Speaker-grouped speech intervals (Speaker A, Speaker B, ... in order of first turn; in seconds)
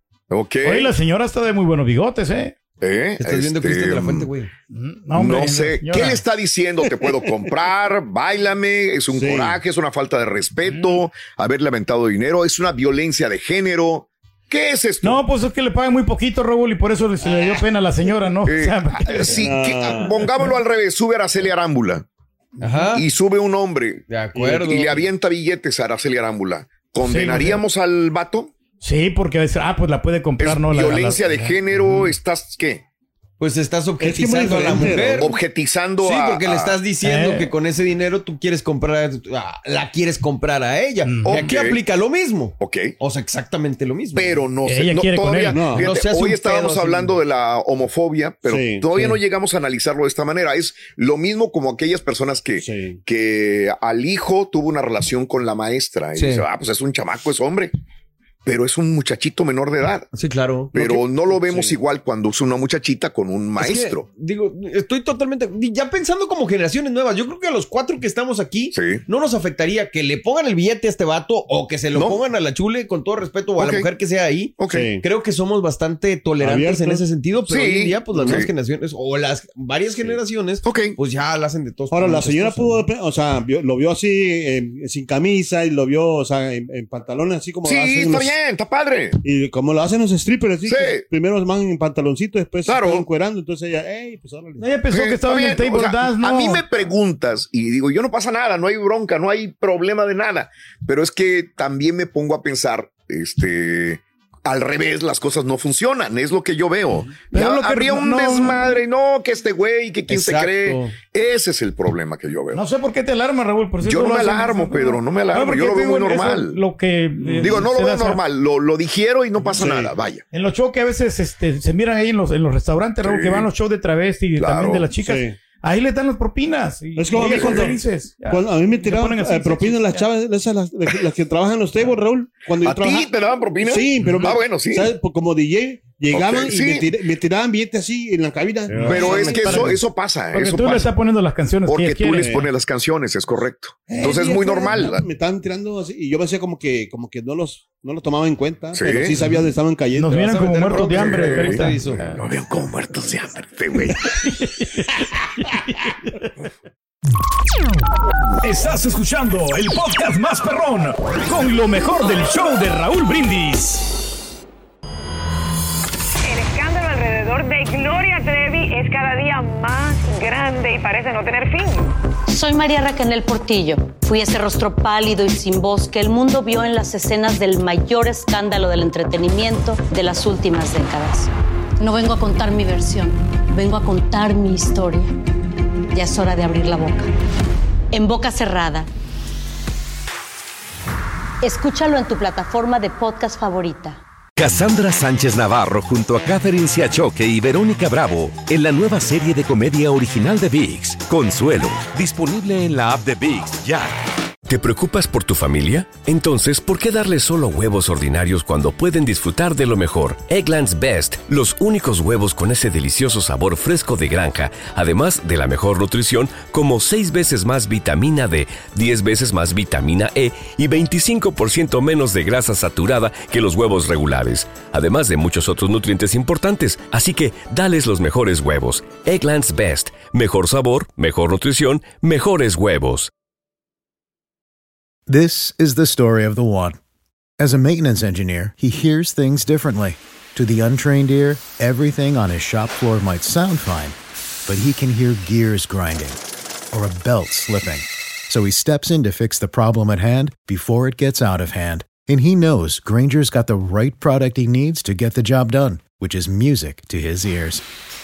Speaker A: 0.3-0.9, 2.8-4.3, 5.2-15.2, 18.4-22.1, 22.9-28.5, 30.4-32.8, 35.2-36.8, 41.2-41.8, 42.6-43.0, 44.1-57.7, 58.5-60.1, 60.7-64.1, 68.7-69.0, 71.9-72.2, 73.6-73.9, 74.6-74.9, 77.5-78.5, 80.6-81.0, 87.7-89.2, 90.7-91.0, 92.7-93.1, 94.9-112.6, 113.8-116.6, 117.4-120.2, 123.0-123.5, 124.4-124.9, 127.2-127.8, 132.6-134.9, 136.1-136.9, 138.8-140.9, 141.7-145.0, 148.7-149.2, 150.7-154.0
Speaker B: 0.6-2.5, 4.7-6.2, 10.7-11.0, 15.0-19.4, 22.6-22.9, 27.0-27.6, 28.8-31.6, 37.0-37.5, 41.0-41.5, 44.6-45.7, 94.6-96.6, 107.3-108.8, 112.5-118.2, 120.3-130.1, 138.8-142.4, 149.9-152.0, 154.0-154.9, 155.5-156.1, 161.3-162.0
Speaker C: 3.2-4.5, 22.6-23.1, 24.1-25.1, 31.8-32.1, 33.4-35.4, 36.0-44.4, 45.8-47.2, 56.1-56.5, 60.1-61.1, 63.6-82.9, 110.1-110.9, 150.1-152.1
Speaker D: 7.0-7.3, 9.1-9.6, 19.3-20.3, 24.3-24.7, 34.0-35.3, 45.5-45.9, 48.5-48.9, 52.6-53.0, 61.4-61.8, 74.7-75.0, 76.4-77.1, 78.1-78.5, 81.9-88.4, 89.2-94.7, 119.5-119.9, 125.0-125.4, 127.0-139.7, 142.2-142.5, 143.9-150.3
Speaker E: 158.4-163.6
Speaker F: 166.3-171.9
Speaker G: 172.3-185.1, 185.9-187.1, 187.9-188.9, 191.4-194.0
Speaker H: 194.4-203.9
Speaker I: 204.5-233.1
Speaker J: 235.1-236.8, 237.4-243.9, 244.5-246.2, 246.7-257.6